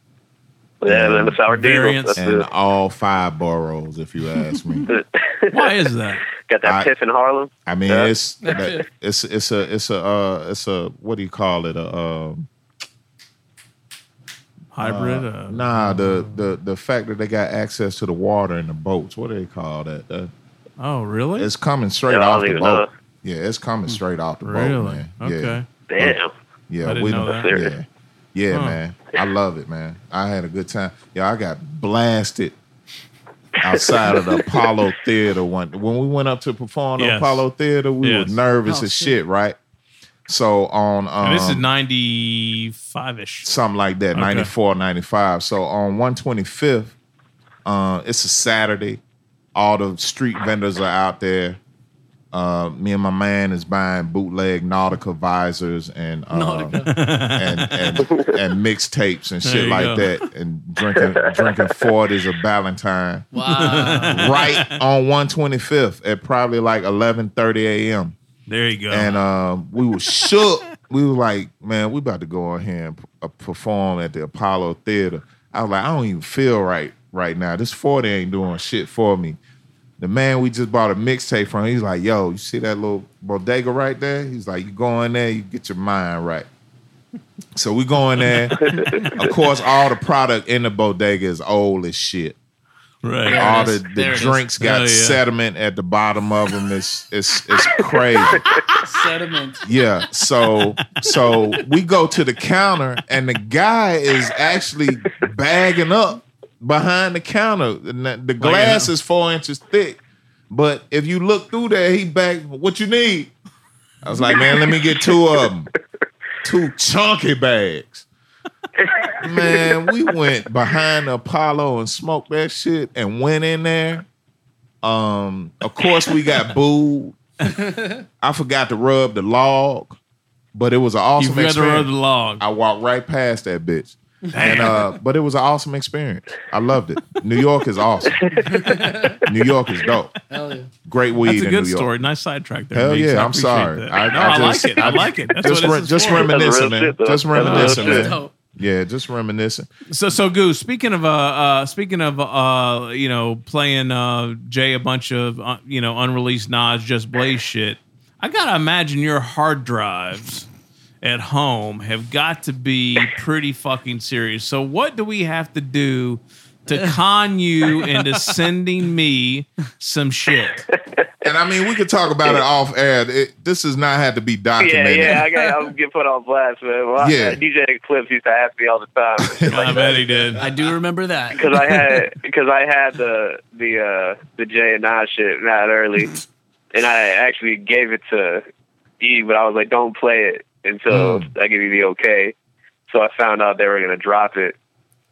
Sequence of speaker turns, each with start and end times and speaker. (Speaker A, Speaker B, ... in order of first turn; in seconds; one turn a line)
Speaker A: 0.8-2.5
Speaker B: 0.8-1.4
Speaker C: 1.5-2.2
Speaker B: 2.2-4.9
Speaker A: 4.9-5.8
Speaker C: 5.5-6.2
Speaker A: 6.3-8.6
Speaker B: 6.6-6.9
Speaker B: 7.7-12.5
Speaker D: 8.4-8.8
Speaker C: 14.7-16.4
Speaker B: 14.8-20.3
Speaker C: 20.8-21.5
Speaker B: 21.4-26.2
Speaker A: 22.1-22.9
Speaker C: 24.4-25.7
Speaker A: 25.9-26.3
Speaker B: 26.7-32.5
Speaker C: 26.8-27.5
Speaker A: 27.3-27.7
Speaker C: 28.5-28.8
Speaker B: 33.6-39.6
Speaker A: 33.7-34.4
Speaker C: 37.0-37.5
Speaker C: 38.0-38.4
Speaker D: 38.7-39.2
Speaker B: 40.3-41.6
Speaker C: 41.2-43.5
Speaker B: 43.4-47.0
Speaker C: 44.1-44.5
Speaker B: 47.7-49.0
Speaker B: 49.5-51.6
Speaker B: 52.3-56.8
Speaker D: 56.3-56.9
Speaker C: 56.9-58.0
Speaker B: 57.4-68.2
Speaker A: 58.1-58.4
Speaker C: 59.4-60.1
Speaker A: 60.9-61.9
Speaker D: 63.3-64.3
Speaker C: 63.5-64.7
Speaker C: 68.5-69.1
Speaker B: 68.9-79.4
Speaker B: 80.0-86.5
Speaker B: 87.6-92.4
Speaker C: 88.3-89.1
Speaker A: 88.5-89.3
Speaker C: 93.0-93.4
Speaker D: 93.2-94.4
Speaker B: 93.3-98.5
Speaker C: 94.6-95.2
Speaker A: 98.3-98.6
Speaker C: 98.5-98.9
Speaker D: 98.8-99.6
Speaker B: 99.6-110.0
Speaker C: 101.1-101.3
Speaker C: 108.4-108.9
Speaker B: 110.5-113.3
Speaker B: 114.0-115.7
Speaker A: 114.3-114.9
Speaker B: 116.4-118.1
Speaker A: 118.8-119.8
Speaker B: 119.2-124.0
Speaker B: 124.8-127.2
Speaker D: 127.6-128.0
Speaker B: 128.2-130.0
Speaker B: 130.5-138.3
Speaker C: 131.2-132.4
Speaker C: 134.3-134.9
Speaker A: 138.1-139.3
Speaker D: 138.5-139.2
Speaker B: 139.2-140.2
Speaker D: 140.3-140.7
Speaker B: 140.9-141.9
Speaker C: 141.2-146.4
Speaker B: 142.7-149.7
Speaker A: 144.2-145.0
Speaker A: 146.0-148.2
Speaker C: 147.3-148.0
Speaker D: 147.5-148.3
Speaker C: 149.9-160.5
Speaker C: 161.0-170.7
Speaker D: 167.8-168.4
Speaker A: 170.7-171.3
Speaker B: 171.2-175.3
Speaker A: 174.6-180.1
Speaker B: 177.0-177.4
Speaker B: 179.2-179.9
Speaker C: 179.5-180.4
Speaker D: 180.4-181.5
Speaker A: 181.3-188.4
Speaker A: 189.0-192.3
Speaker B: 190.9-191.3
Speaker A: 192.9-194.6